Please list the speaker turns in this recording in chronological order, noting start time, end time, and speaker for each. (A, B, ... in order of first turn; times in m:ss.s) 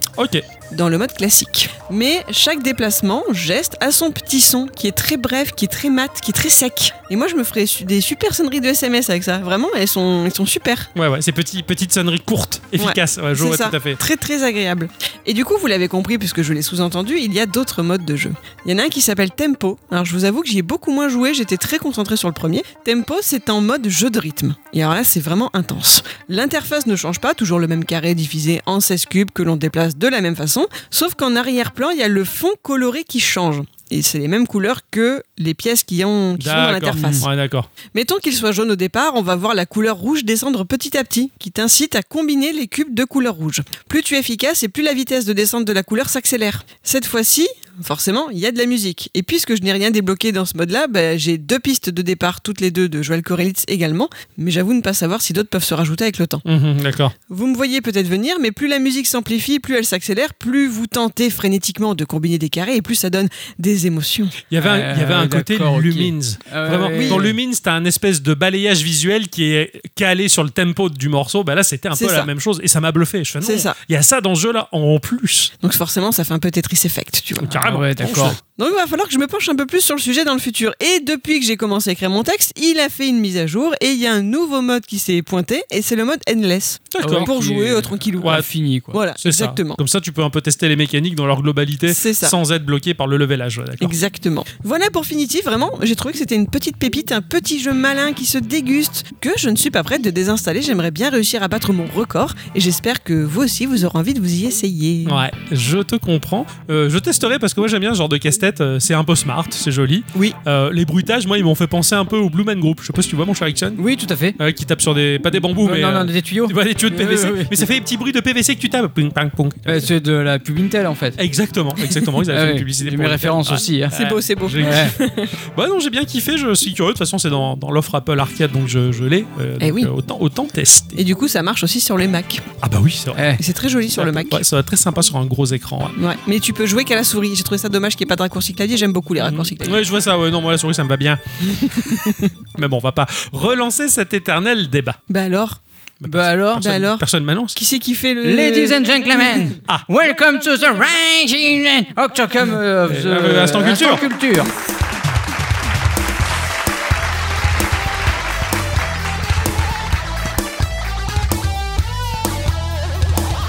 0:00.2-0:00.4 A
0:00.7-0:10.9 B
0:10.9-0:14.0 A
0:12.8-0:37.3 B
0:36.4-0:37.7 A
0:36.9-0:37.2 C
0:37.9-0:56.4 B
0:56.4-0:57.1 A
0:57.3-1:04.3 B
1:04.5-1:15.5 A
1:04.6-1:07.4 C
1:07.0-1:07.2 B
1:11.9-1:12.3 B
1:13.4-1:13.8 B
1:15.6-1:17.6 B
1:17.4-1:18.4 A
1:17.6-1:18.4 C
1:18.6-1:29.8 B
1:26.9-1:27.3 A
1:27.0-1:29.0 C
1:28.2-1:28.5 A
1:29.2-1:33.9 A
1:31.9-1:32.3 B
1:33.8-1:45.2 B
1:45.0-1:53.8 A
1:53.8-1:54.4 C
1:54.4-1:59.9 A
1:55.6-1:57.7 C
1:59.6-2:01.2 C
2:01.2-2:05.0 A
2:02.3-2:03.9 C
2:03.9-2:05.3 B
2:04.6-2:04.9 C
2:05.5-2:11.0 A
2:09.6-2:09.9 B
2:11.0-2:12.4 B
2:12.6-2:13.3 A
2:13.1-2:13.4 C
2:13.4-2:14.4 B
2:13.9-2:16.0 A
2:16.0-2:19.8 B
2:19.2-2:25.0 A
2:21.5-2:22.3 B
2:25.1-2:25.6 B
2:26.0-2:27.6 A
2:26.0-2:26.7 C
2:26.6-2:28.8 B
2:28.2-2:34.5 C
2:32.9-2:34.0 A